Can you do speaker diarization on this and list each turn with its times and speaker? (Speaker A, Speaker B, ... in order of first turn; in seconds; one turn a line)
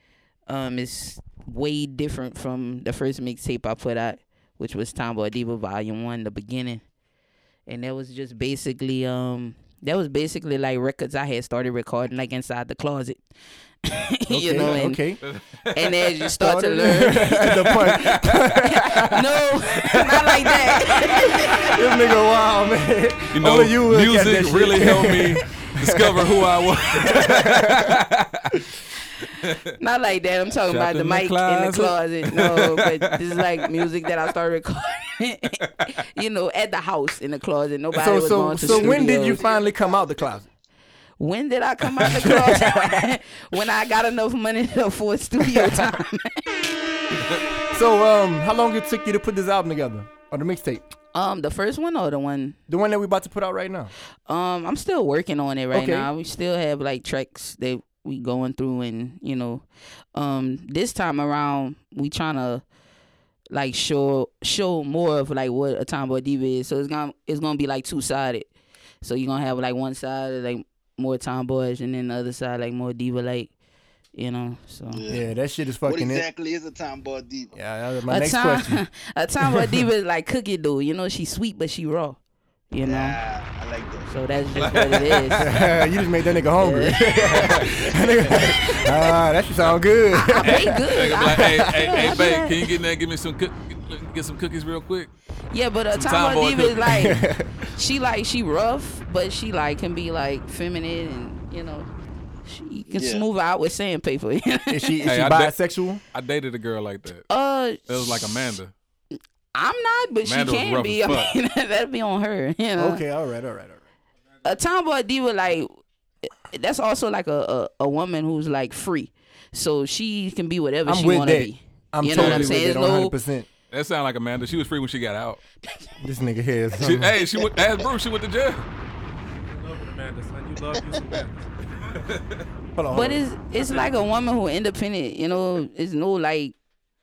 Speaker A: 0.5-6.8
Speaker A: 7.7-13.2
Speaker A: 13.8-15.0
Speaker B: 14.3-15.2
Speaker C: 15.2-16.1
Speaker A: 15.7-21.7
Speaker B: 16.4-19.4
Speaker C: 16.9-18.3
Speaker B: 19.9-20.4
Speaker C: 20.8-21.3
Speaker B: 21.6-26.4
Speaker C: 23.3-28.6
Speaker B: 27.0-28.0
Speaker A: 29.8-39.4
Speaker C: 30.7-33.7
Speaker B: 37.9-40.5
Speaker D: 38.9-40.1
Speaker A: 41.2-46.7
Speaker B: 42.0-43.0
Speaker B: 45.4-46.0
Speaker B: 47.7-50.9
Speaker A: 51.1-52.6
Speaker B: 52.7-53.9
Speaker A: 54.3-62.6
Speaker B: 55.7-56.1
Speaker A: 63.5-68.5
Speaker A: 69.0-73.5
Speaker A: 74.1-75.0
Speaker D: 74.9-75.3
Speaker B: 75.1-76.2
Speaker D: 75.8-77.5
Speaker B: 77.5-78.8
Speaker A: 78.1-82.2
Speaker B: 79.4-79.9
Speaker A: 82.7-83.2
Speaker D: 82.8-84.1
Speaker A: 84.1-85.5
Speaker C: 84.5-85.8
Speaker B: 85.4-92.2
Speaker A: 86.6-87.6
Speaker C: 87.3-87.7
Speaker A: 88.3-88.8
Speaker A: 90.1-92.7
Speaker C: 90.4-95.1
Speaker A: 95.5-97.2
Speaker C: 95.9-97.0
Speaker B: 96.9-97.7
Speaker A: 97.7-101.9
Speaker A: 102.5-105.0
Speaker D: 103.0-103.2
Speaker B: 104.7-106.0
Speaker C: 105.0-105.5
Speaker C: 106.1-107.3
Speaker A: 107.3-108.3
Speaker C: 107.9-108.7
Speaker A: 109.5-113.0
Speaker C: 110.2-111.3
Speaker B: 112.8-113.8
Speaker A: 114.4-115.7
Speaker A: 116.5-123.1
Speaker B: 120.8-123.5
Speaker C: 122.1-122.6
Speaker C: 123.7-125.4
Speaker B: 126.0-127.2
Speaker C: 126.8-128.7
Speaker E: 129.4-132.2
Speaker D: 130.8-131.2
Speaker B: 132.8-133.2
Speaker A: 132.9-136.5